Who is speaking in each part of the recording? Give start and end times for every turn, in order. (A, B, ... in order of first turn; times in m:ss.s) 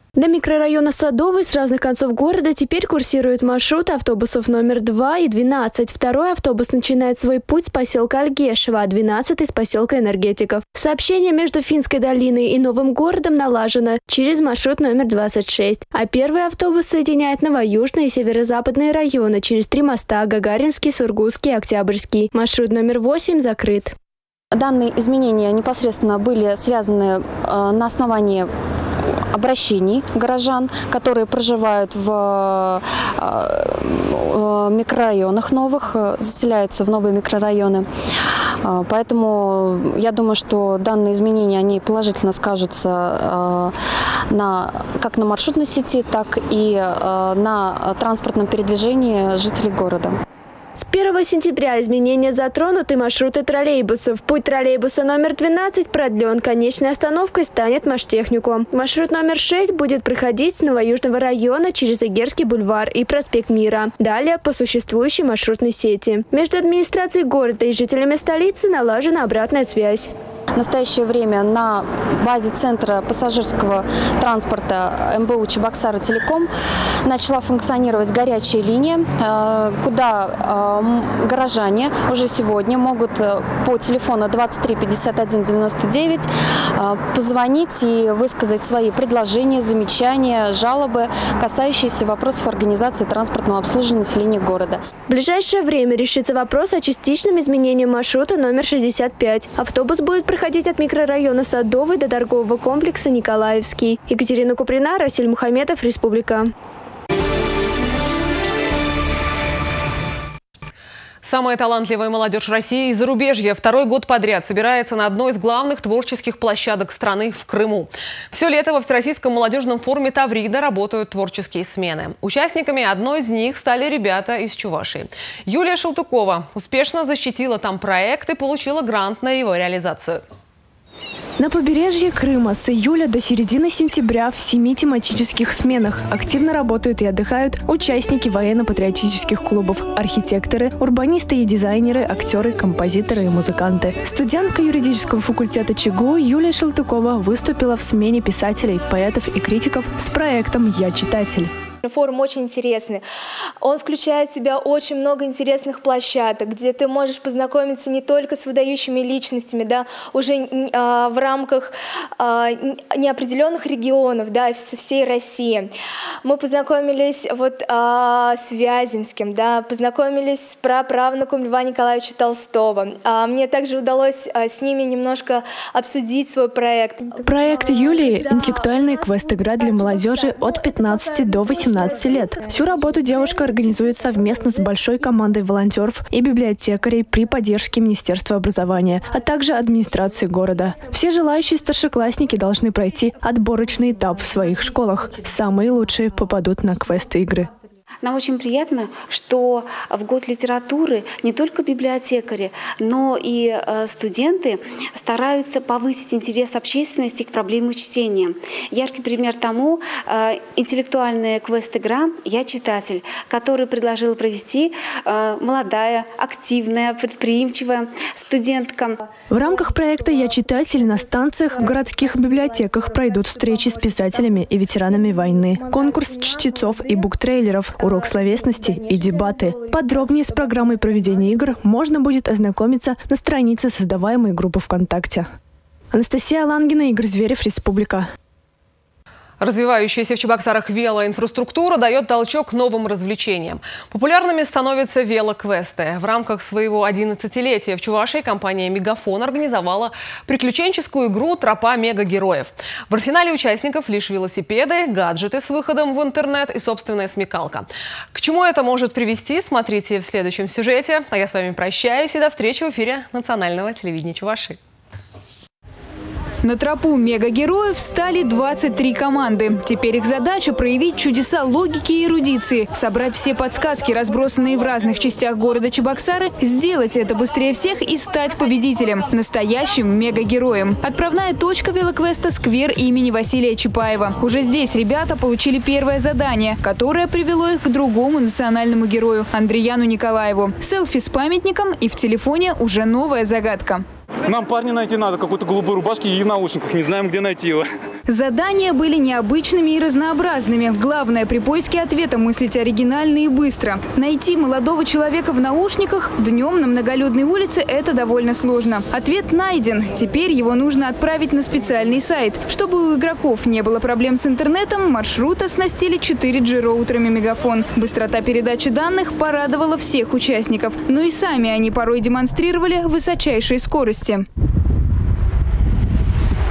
0:00.2-0:23.9 A
0:24.5-0:28.5 B
0:29.3-0:37.9 B
0:38.6-0:43.8 B
0:44.3-0:50.2 B
0:50.8-1:10.1 A
1:10.6-1:16.5 B
1:17.0-1:34.8 B
1:35.1-1:46.5 A
1:51.2-2:10.2 C
2:11.4-2:31.5 D
2:31.8-2:33.0 E
2:33.6-2:45.7 E
2:46.2-2:57.1 E
2:57.2-3:17.5 D
3:18.0-3:39.0 F
3:39.3-3:55.3 D
3:55.9-3:58.1 D
3:59.4-4:24.6 C
4:26.4-4:53.8 G
4:54.3-4:57.7 H
4:58.1-5:24.2 G